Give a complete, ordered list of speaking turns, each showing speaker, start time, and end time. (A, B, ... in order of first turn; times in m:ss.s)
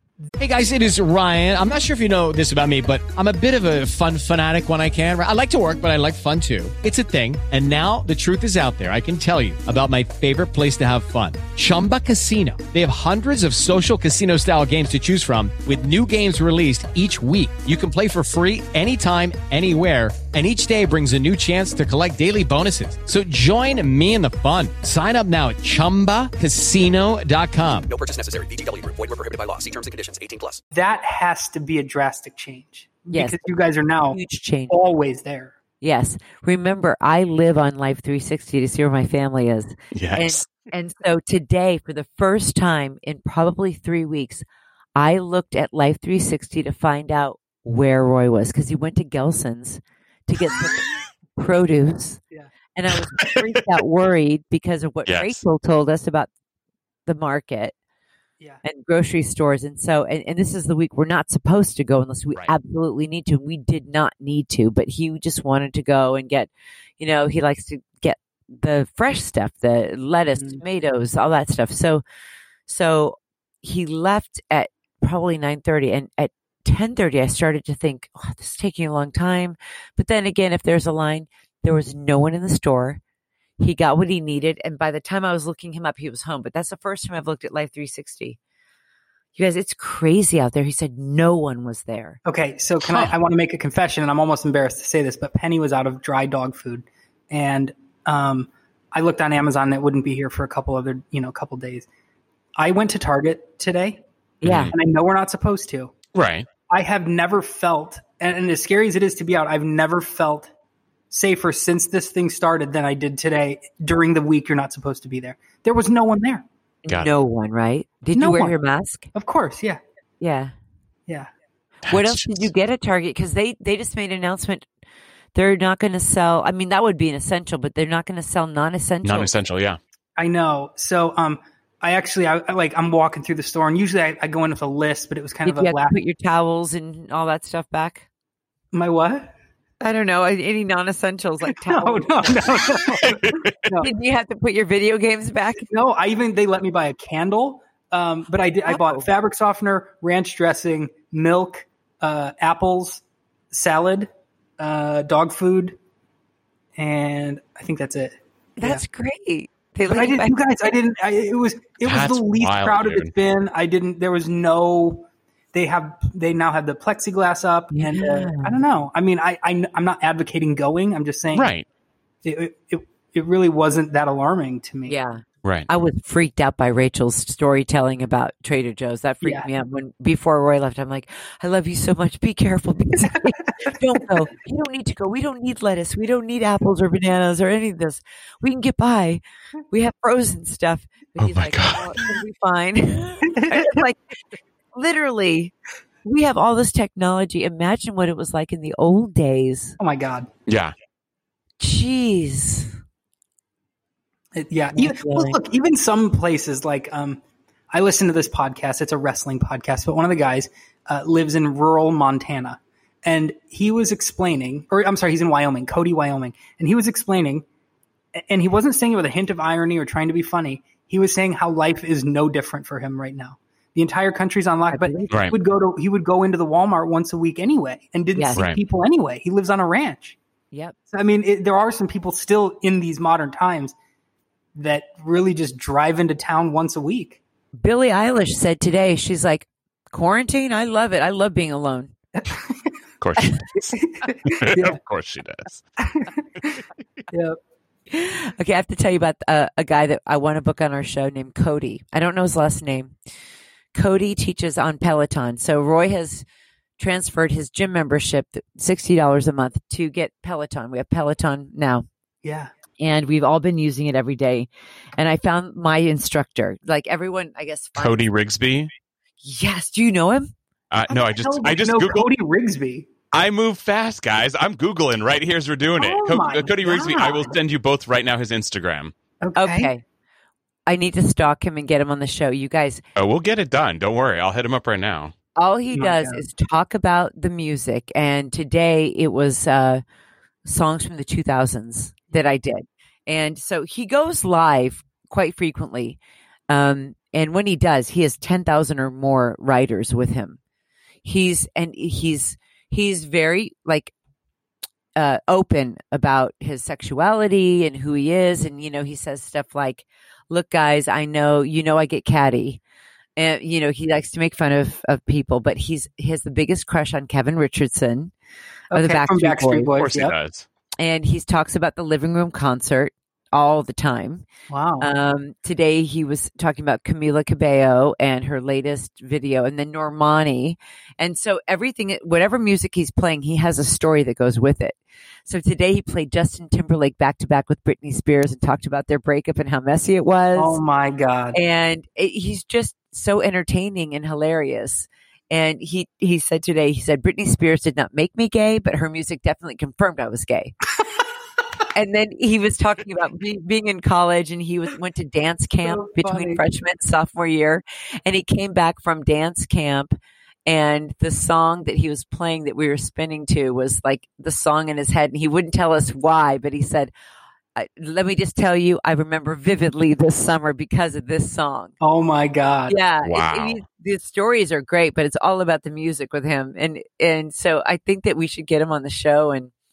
0:00.4-0:27.9 A
0:27.9-0:30.6 B
0:30.7-0:35.5 C
0:33.1-0:33.4 D
0:34.1-0:34.8 D
0:35.8-0:44.4 D
0:39.9-0:40.5 E
0:45.0-0:52.2 D
0:52.8-0:56.3 D
0:55.1-0:55.4 E
0:57.1-0:57.7 D
0:58.6-1:12.0 D
1:10.4-1:10.6 C
1:12.7-1:23.0 D
1:23.6-1:28.4 D
1:29.4-1:32.2 D
1:32.2-1:41.9 C
1:42.6-1:44.0 C
1:44.4-1:44.7 D
1:44.4-1:44.7 E
1:44.7-1:45.9 C
1:46.2-1:46.5 E
1:46.7-1:50.5 C
1:51.1-1:56.4 C
1:56.8-1:59.1 D
1:58.1-1:58.6 C
1:59.1-1:59.8 C
2:00.2-2:00.5 D
2:01.9-2:02.5 E
2:01.9-2:04.7 D
2:05.4-2:09.3 D
2:09.0-2:09.8 E
2:10.2-2:16.0 C
2:15.4-2:18.0 D
2:18.7-2:19.3 C
2:19.8-2:22.3 D
2:21.5-2:23.9 C
2:23.0-2:23.5 E
2:23.8-2:25.7 D
2:25.7-2:35.8 C
2:28.7-2:29.0 D
2:36.8-2:38.8 C
2:38.6-2:40.4 D
2:39.9-2:51.5 C
2:41.8-2:43.1 E
2:47.7-2:48.6 D
2:51.3-2:51.6 E
2:52.2-2:55.0 C
2:54.9-3:14.0 D
2:55.4-2:55.7 E
2:59.2-2:59.5 C
3:03.0-3:03.8 C
3:11.2-3:11.8 E
3:13.3-3:13.8 C
3:14.7-3:15.5 D
3:16.0-3:19.8 D
3:19.8-3:20.3 C
3:20.5-3:20.7 E
3:21.6-3:22.8 D
3:24.3-3:37.4 C
3:24.8-3:25.4 D
3:38.2-3:50.2 C
3:44.7-3:45.2 D
3:48.2-3:48.4 D
3:50.9-3:53.7 C
3:54.6-3:57.2 C
3:57.6-4:01.9 D
4:02.2-4:02.7 C
4:03.0-4:05.6 E
4:03.8-4:04.8 C
4:05.8-4:06.6 C
4:07.1-4:07.4 C
4:07.9-4:12.9 D
4:13.7-4:16.2 D
4:16.8-4:21.9 D
4:22.2-4:22.5 C
4:22.8-4:28.0 D
4:27.8-4:28.7 E
4:29.2-4:30.3 D
4:30.7-4:32.1 E
4:30.9-4:32.9 C
4:33.1-4:38.9 E
4:35.8-4:37.4 C
4:39.2-4:39.7 C
4:39.4-4:39.8 D
4:40.7-4:42.8 D
4:43.0-4:45.1 E
4:45.4-4:49.8 D
4:45.7-4:46.2 C
4:50.4-5:00.4 D
5:01.0-5:03.9 D
5:05.0-5:12.6 D
5:13.2-5:18.1 D
5:18.7-5:20.1 C
5:18.7-5:19.7 D
5:19.8-5:20.5 E
5:20.8-5:24.3 D
5:24.5-5:24.9 C
5:24.8-5:40.6 D
5:40.4-5:41.4 C
5:41.3-5:50.6 D
5:51.7-6:00.0 D
5:55.6-5:56.4 C
6:00.5-6:06.9 D
6:07.6-6:11.7 D
6:11.8-6:12.8 C
6:12.7-6:19.5 D
6:13.0-6:13.6 E